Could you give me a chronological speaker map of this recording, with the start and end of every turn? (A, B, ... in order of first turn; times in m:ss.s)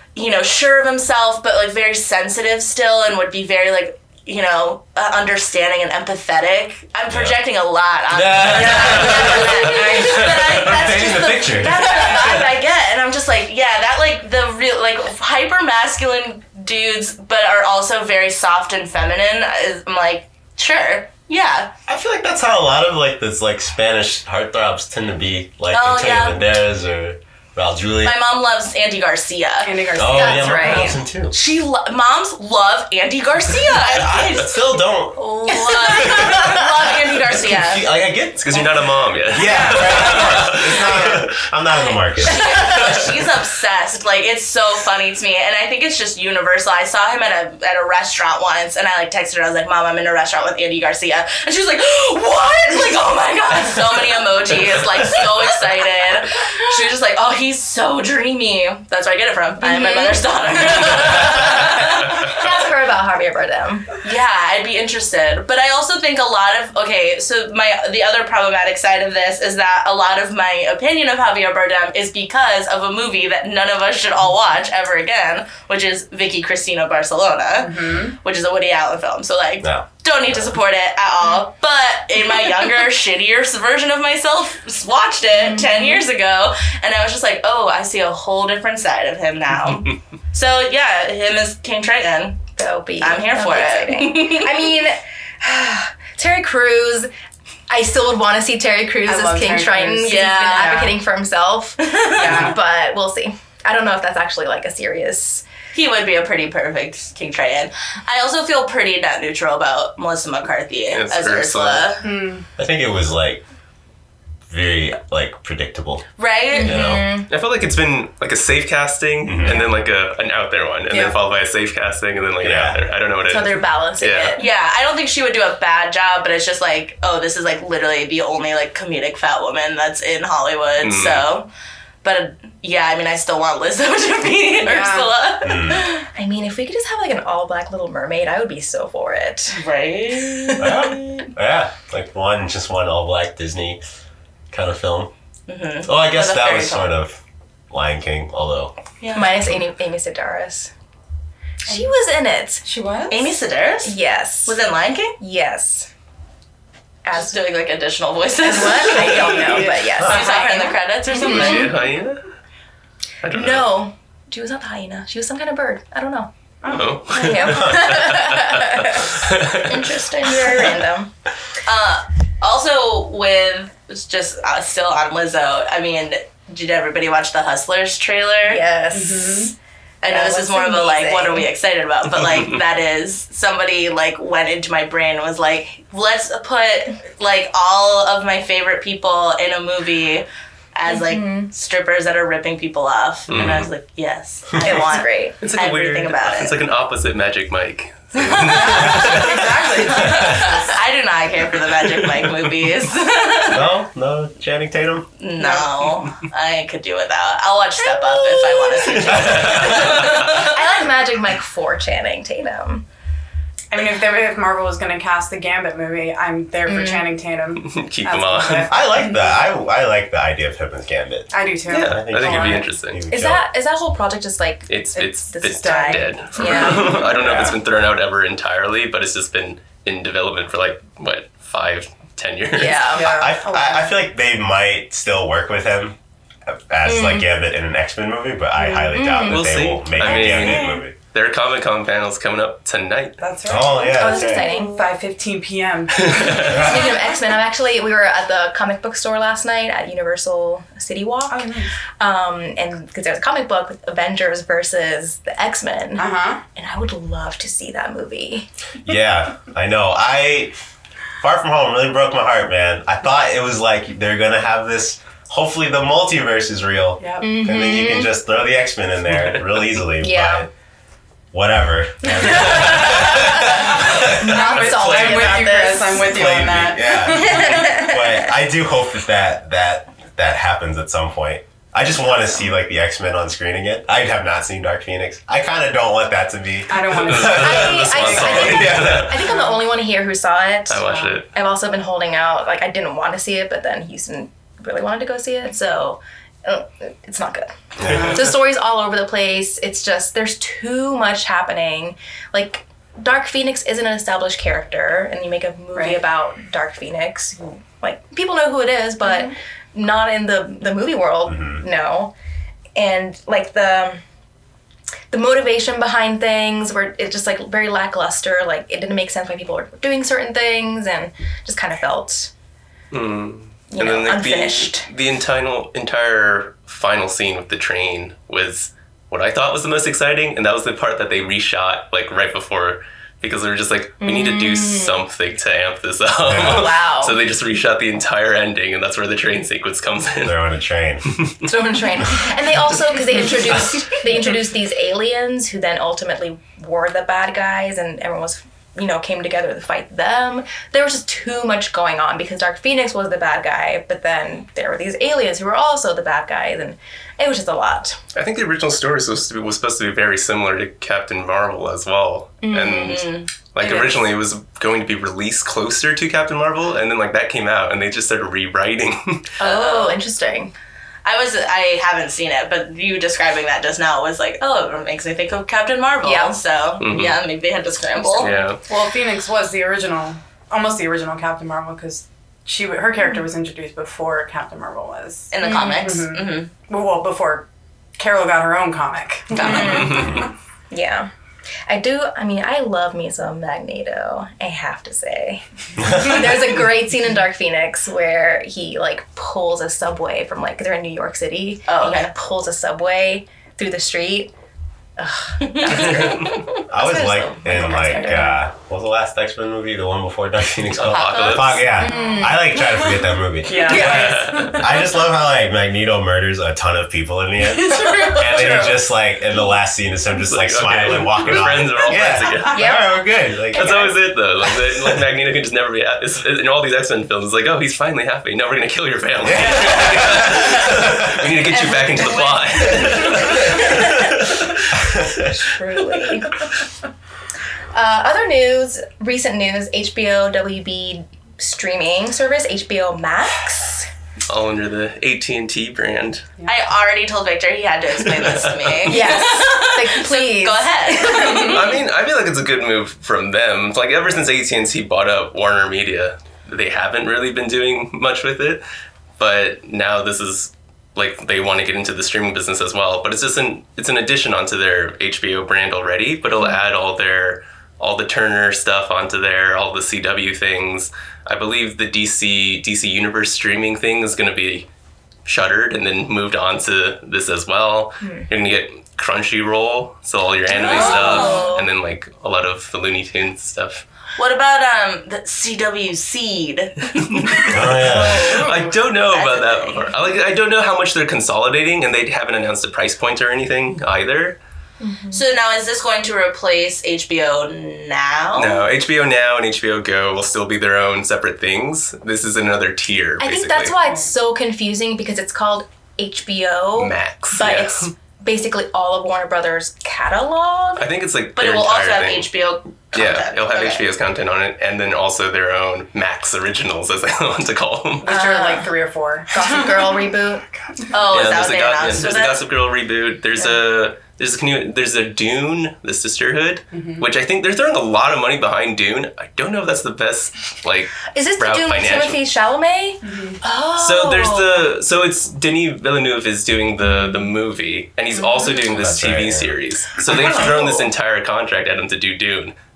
0:00.2-0:21.7 A
0:07.1-0:07.4 B
0:08.1-0:12.5 B
0:08.6-0:10.6 C
0:21.9-0:28.2 B
0:25.7-0:26.4 A
0:28.0-0:29.9 A
0:29.6-0:30.9 D
0:30.0-0:31.4 B
0:30.1-0:31.0 E
0:31.3-0:37.8 A
0:33.8-0:35.3 B
0:35.5-0:36.9 E
0:36.1-0:36.4 B
0:37.0-0:43.0 B
0:38.4-0:41.4 C
0:39.4-0:40.4 D
0:42.2-1:02.5 A
0:42.4-0:43.2 C
0:59.6-1:03.9 E
1:04.0-1:32.5 A
1:17.6-1:18.2 D
1:19.6-1:20.5 B
1:25.4-1:26.0 E
1:32.6-1:37.1 E
1:33.0-1:34.5 A
1:37.7-1:45.4 E
1:39.0-1:41.0 D
1:40.0-1:40.9 A
1:41.8-1:42.6 A
1:42.2-1:42.6 D
1:45.7-1:52.1 A
1:50.9-1:51.9 C
1:52.0-1:52.5 D
1:52.6-1:53.4 B
1:54.5-1:56.1 B
1:56.2-1:57.1 A
1:56.5-1:57.3 E
1:56.6-1:57.1 B
1:57.3-2:04.4 C
1:59.3-1:59.6 B
2:00.9-2:01.2 D
2:02.4-2:02.8 B
2:03.3-2:04.5 E
2:04.4-2:11.5 A
2:10.8-2:11.2 C
2:12.0-2:16.0 A
2:14.6-2:15.1 D
2:15.4-2:15.9 B
2:16.1-2:19.6 E
2:19.6-2:21.3 A
2:20.2-2:21.0 E
2:20.6-2:23.8 B
2:24.5-2:25.1 B
2:25.5-2:26.9 A
2:25.8-2:28.7 B
2:29.0-2:29.4 A
2:29.1-2:30.7 E
2:31.7-2:32.6 E
2:32.6-2:33.3 D
2:33.1-2:34.0 A
2:33.8-2:34.6 E
2:34.5-2:35.2 A
2:35.2-2:35.9 E
2:37.0-2:37.4 E
2:37.1-2:41.8 A
2:38.4-2:41.7 E
2:38.7-2:40.8 D
2:41.1-2:42.3 C
2:43.2-2:43.7 C
2:43.3-2:51.1 E
2:46.6-2:47.0 D
2:46.7-2:49.9 C
2:49.7-2:50.7 A
2:51.7-2:58.6 A
2:58.4-2:59.5 E
2:58.9-2:59.5 D
3:00.0-3:16.6 A
3:00.1-3:01.5 E
3:02.1-3:02.6 C
3:10.9-3:11.5 E
3:13.3-3:13.7 C
3:14.6-3:15.4 E
3:15.4-3:20.3 C
3:18.2-3:19.0 A
3:18.7-3:20.5 D
3:18.9-3:19.3 B
3:19.9-3:23.7 A
3:20.1-3:20.5 B
3:22.0-3:22.3 C
3:23.5-3:25.1 B
3:25.2-3:30.6 A
3:25.4-3:25.8 D
3:27.9-3:29.0 E
3:29.1-3:29.7 B
3:29.1-3:30.2 C
3:29.9-3:32.8 E
3:33.7-3:39.4 D
3:36.7-3:37.1 E
3:37.6-3:38.7 C
3:38.7-3:43.4 B
3:41.3-3:42.7 D
3:41.7-3:43.0 C
3:43.1-3:47.0 E
3:44.7-3:53.0 C
3:45.0-3:47.4 D
3:47.0-3:47.6 B
3:52.5-3:53.0 E
3:52.9-3:53.8 D
3:53.0-4:01.0 B
3:56.9-3:57.3 E
3:58.6-3:59.5 E
3:59.2-4:03.2 C
4:00.0-4:00.8 D
4:03.2-4:07.0 D
4:03.5-4:04.5 B
4:03.8-4:04.9 E
4:06.0-4:06.6 C
4:06.3-4:18.5 E
4:06.5-4:06.9 B
4:11.3-4:11.8 D
4:16.0-4:16.4 D
4:18.8-4:20.5 B
4:21.2-4:30.5 B
4:27.0-4:27.3 D
4:27.2-4:28.2 E
4:29.1-4:29.7 C
4:30.0-4:30.5 E
4:31.3-4:34.3 B
4:32.3-4:35.6 C
4:33.0-4:36.1 E
4:34.0-4:37.8 D
4:36.0-4:49.2 B
4:37.1-4:38.2 E
4:46.7-4:49.6 D
4:47.1-4:49.2 C
4:47.2-5:12.1 E
4:50.7-4:51.3 C
4:50.7-4:51.2 D
4:57.8-4:58.3 B
4:57.9-4:58.3 D
5:05.8-5:06.0 D
5:11.3-5:11.6 B
5:12.8-5:14.0 E
5:15.1-5:22.3 E
5:22.9-5:40.5 C
5:23.7-5:24.8 E
5:24.2-5:24.7 A
5:34.0-5:35.0 E
5:36.2-5:36.7 B
5:36.3-5:37.2 E
5:40.2-5:41.1 B
5:41.4-5:58.0 E
5:58.1-6:09.3 C
6:02.4-6:03.0 E
6:02.6-6:03.3 A
6:03.6-6:04.0 D
6:09.4-6:10.0 A
6:09.4-6:10.5 E
6:11.0-6:18.4 A
6:16.0-6:16.4 E
6:16.8-6:17.2 C
6:18.2-6:18.6 C
6:18.7-6:30.3 D
6:25.3-6:26.5 A
6:25.4-6:26.0 E
6:29.3-6:30.1 A
6:29.4-6:31.1 E
6:29.7-6:30.2 C
6:31.7-6:44.3 E
6:41.7-6:42.1 A
6:45.0-6:48.4 E
6:45.4-6:46.5 A
6:46.7-7:03.9 B
6:50.7-6:51.7 C
6:50.8-6:51.9 A
6:51.8-6:52.4 E
6:53.4-6:54.7 D
6:53.7-6:54.1 E
6:53.7-6:54.6 C
6:57.6-6:58.8 D
6:57.7-6:58.2 A
7:00.2-7:02.6 C
7:02.5-7:03.0 E
7:03.5-7:14.6 C
7:03.6-7:03.9 E
7:09.2-7:11.3 B
7:11.2-7:14.3 E
7:14.8-7:15.1 B
7:15.0-7:16.5 E
7:17.7-7:23.9 E
7:24.3-7:26.3 C
7:26.4-7:31.8 A
7:28.1-7:29.1 C
7:28.9-7:31.6 E
7:31.4-7:38.6 C
7:39.2-7:54.7 C
7:55.3-8:03.8 C
7:58.0-7:58.3 E
8:00.5-8:01.7 E
8:00.6-8:01.6 A
8:00.7-8:01.3 D
8:04.2-8:09.9 A
8:07.2-8:14.4 C
8:07.5-8:08.4 B
8:08.0-8:08.7 D
8:14.8-8:15.2 E
8:15.1-8:18.6 A
8:18.4-8:23.8 C
8:23.2-8:30.9 E
8:26.8-8:27.9 C
8:30.8-8:32.3 C
8:31.4-8:33.8 A
8:32.9-8:38.2 C
8:38.0-8:40.0 D
8:38.1-8:38.7 E
8:39.3-8:40.5 E
8:40.9-8:42.4 A
8:41.1-8:52.2 C
8:46.7-8:47.1 D
8:51.1-8:54.7 E
8:53.0-8:53.4 D
8:53.8-9:02.6 C
8:58.7-8:59.6 B
9:00.0-9:00.8 D